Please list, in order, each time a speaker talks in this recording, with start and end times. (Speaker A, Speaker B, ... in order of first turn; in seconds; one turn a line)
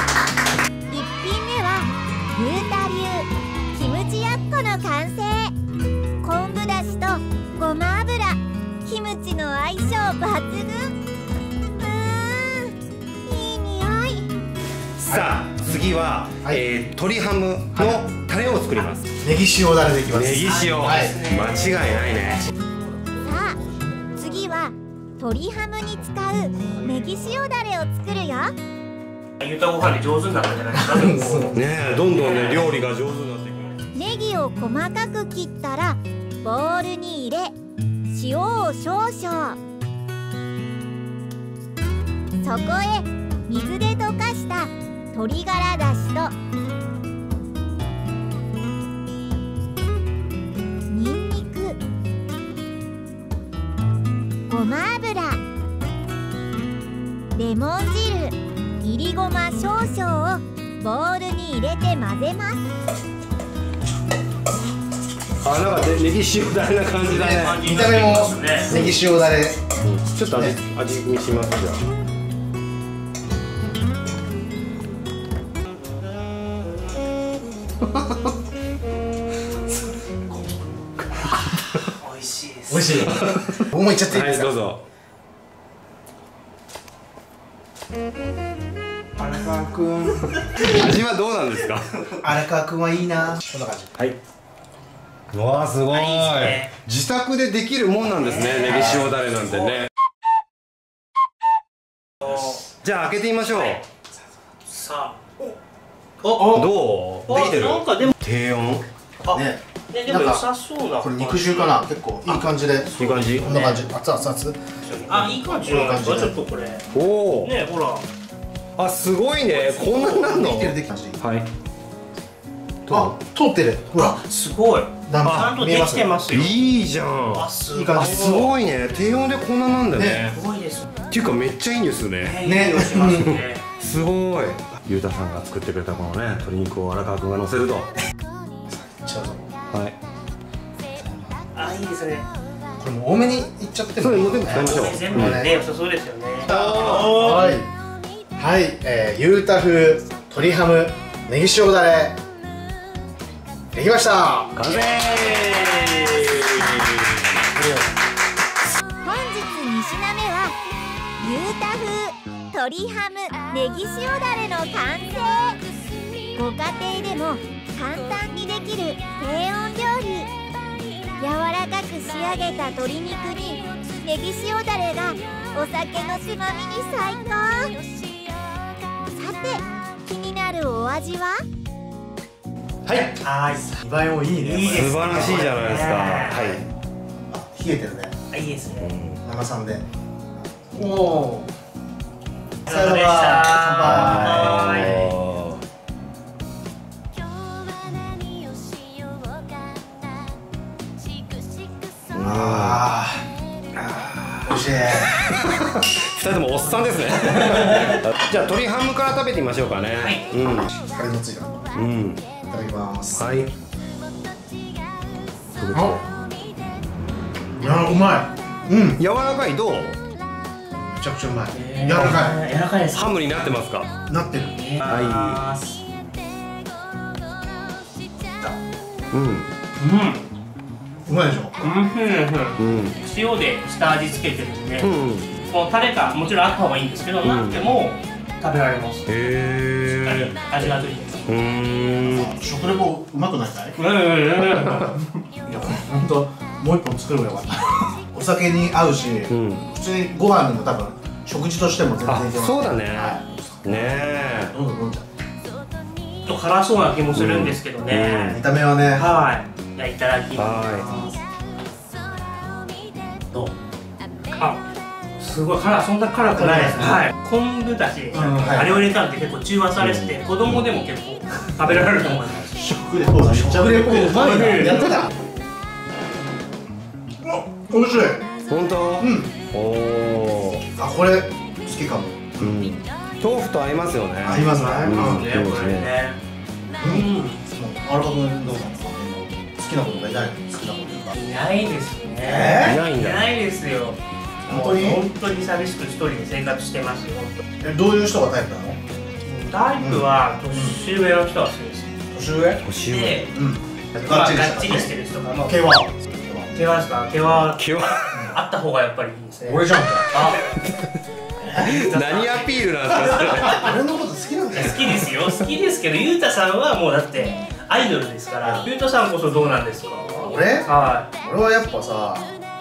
Speaker A: 0.9-5.5
Speaker A: 6.2-11.0
Speaker A: 11.7-12.7
Speaker A: 13.2-14.3
Speaker B: 15.0-19.1
Speaker C: 15.1-16.6
Speaker C: 17.7-18.1
Speaker C: 19.2-21.1
Speaker B: 20.1-22.4
Speaker D: 20.4-22.1
Speaker A: 23.2-23.6
Speaker A: 24.1-28.5
Speaker D: 29.4-31.6
Speaker C: 30.8-31.5
Speaker B: 31.5-33.7
Speaker D: 32.1-32.7
Speaker A: 33.9-37.5
Speaker A: 38.1-39.6
Speaker A: 42.4-46.3
Speaker A: 50.9-51.8
Speaker A: 54.5-55.4
Speaker A: 57.3-62.6
Speaker B: 65.4-67.6
Speaker D: 67.0-68.7
Speaker C: 67.0-69.6
Speaker B: 68.7-69.0
Speaker B: 69.8-71.8
Speaker D: 82.0-83.3
Speaker C: 82.7-84.5
Speaker B: 84.1-84.8
Speaker D: 89.2-90.3
Speaker B: 90.6-91.9
Speaker C: 92.2-94.0
Speaker B: 95.3-99.9
Speaker D: 95.9-96.7
Speaker D: 98.2-99.1
Speaker B: 102.8-103.8
Speaker D: 103.5-103.8
Speaker D: 104.7-105.5
Speaker D: 106.2-106.7
Speaker B: 106.4-108.8
Speaker D: 107.3-108.1
Speaker D: 109.2-112.4
Speaker C: 109.3-110.5
Speaker C: 111.0-116.4
Speaker D: 112.9-113.8
Speaker B: 113.0-113.5
Speaker D: 114.9-116.9
Speaker B: 116.9-117.5
Speaker D: 117.4-118.0
Speaker B: 118.8-121.5
Speaker D: 119.5-120.1
Speaker C: 119.9-121.2
Speaker B: 122.9-123.1
Speaker C: 122.9-124.2
Speaker D: 123.9-126.5
Speaker C: 125.1-126.4
Speaker B: 125.2-125.5
Speaker B: 126.3-130.3
Speaker D: 127.3-128.4
Speaker C: 127.7-128.5
Speaker C: 129.9-130.3
Speaker D: 130.2-130.9
Speaker B: 131.1-132.4
Speaker D: 132.2-133.6
Speaker C: 132.4-133.4
Speaker B: 133.2-137.9
Speaker C: 138.7-139.5
Speaker B: 139.7-140.0
Speaker C: 141.0-141.3
Speaker D: 141.5-142.2
Speaker C: 142.8-145.6
Speaker B: 144.0-145.4
Speaker D: 144.5-146.9
Speaker C: 146.5-147.7
Speaker B: 146.5-147.4
Speaker C: 148.3-152.2
Speaker C: 153.7-154.6
Speaker B: 154.6-157.3
Speaker A: 159.0-160.6
Speaker A: 161.2-165.6
Speaker A: 166.3-170.3
Speaker A: 171.2-177.8
Speaker A: 179.1-181.4
Speaker B: 182.8-183.2
Speaker D: 183.2-183.7
Speaker C: 183.6-185.7
Speaker D: 184.4-186.6
Speaker B: 184.7-186.6
Speaker C: 187.3-188.2
Speaker D: 188.3-188.9
Speaker B: 188.8-189.2
Speaker C: 189.2-189.8
Speaker C: 190.7-191.5
Speaker C: 192.6-194.8
Speaker D: 192.7-195.1
Speaker B: 193.9-195.6
Speaker B: 202.1-202.8
Speaker C: 202.2-203.2
Speaker B: 203.8-210.7
Speaker C: 204.4-205.2
Speaker D: 209.9-210.3
Speaker C: 210.6-211.7
Speaker B: 211.7-212.2
Speaker C: 212.5-213.2
Speaker B: 213.2-213.5
Speaker B: 215.6-216.0
Speaker C: 215.7-216.0
Speaker C: 217.6-219.0
Speaker B: 219.0-220.0
Speaker C: 220.9-222.4
Speaker D: 221.5-223.1
Speaker B: 222.9-223.9
Speaker C: 224.1-224.7
Speaker D: 224.6-225.8
Speaker B: 224.9-225.4
Speaker B: 229.1-229.5
Speaker D: 229.8-230.2
Speaker C: 231.1-231.6
Speaker D: 231.6-234.9
Speaker B: 232.6-232.9
Speaker B: 234.8-235.4
Speaker D: 235.4-239.1
Speaker B: 237.2-237.6
Speaker B: 239.1-240.4
Speaker D: 240.0-241.3
Speaker B: 241.3-242.3
Speaker C: 242.1-243.8
Speaker D: 243.8-245.0
Speaker C: 245.4-255.1
Speaker B: 249.3-249.7
Speaker B: 252.1-254.5
Speaker D: 256.2-261.2
Speaker B: 257.1-258.3
Speaker C: 258.1-259.1
Speaker B: 260.3-260.9
Speaker D: 264.3-264.6
Speaker D: 265.2-272.7
Speaker C: 266.3-267.1
Speaker C: 268.1-268.8
Speaker B: 269.8-270.1
Speaker C: 272.6-275.1
Speaker D: 273.4-275.1
Speaker B: 274.6-275.0
Speaker C: 277.2-278.3
Speaker B: 278.5-280.6
Speaker C: 279.0-279.3
Speaker C: 280.8-282.7
Speaker B: 282.4-285.9
Speaker C: 284.2-285.3
Speaker D: 284.3-286.2
Speaker C: 286.8-291.2
Speaker D: 286.8-287.4
Speaker D: 291.1-297.4
Speaker C: 292.2-292.8
Speaker B: 292.6-293.2
Speaker C: 294.5-295.0
Speaker C: 297.6-298.8
Speaker D: 299.2-301.9
Speaker C: 299.8-300.8
Speaker C: 302.1-302.6
Speaker B: 302.6-303.3
Speaker D: 302.8-303.3
Speaker C: 303.3-304.9
Speaker D: 303.9-305.6
Speaker C: 305.4-306.5
Speaker D: 306.5-310.4
Speaker B: 307.5-308.2
Speaker C: 309.4-310.2
Speaker D: 311.5-313.5
Speaker B: 311.5-313.7
Speaker C: 313.4-315.1
Speaker D: 314.5-321.1
Speaker C: 320.2-322.3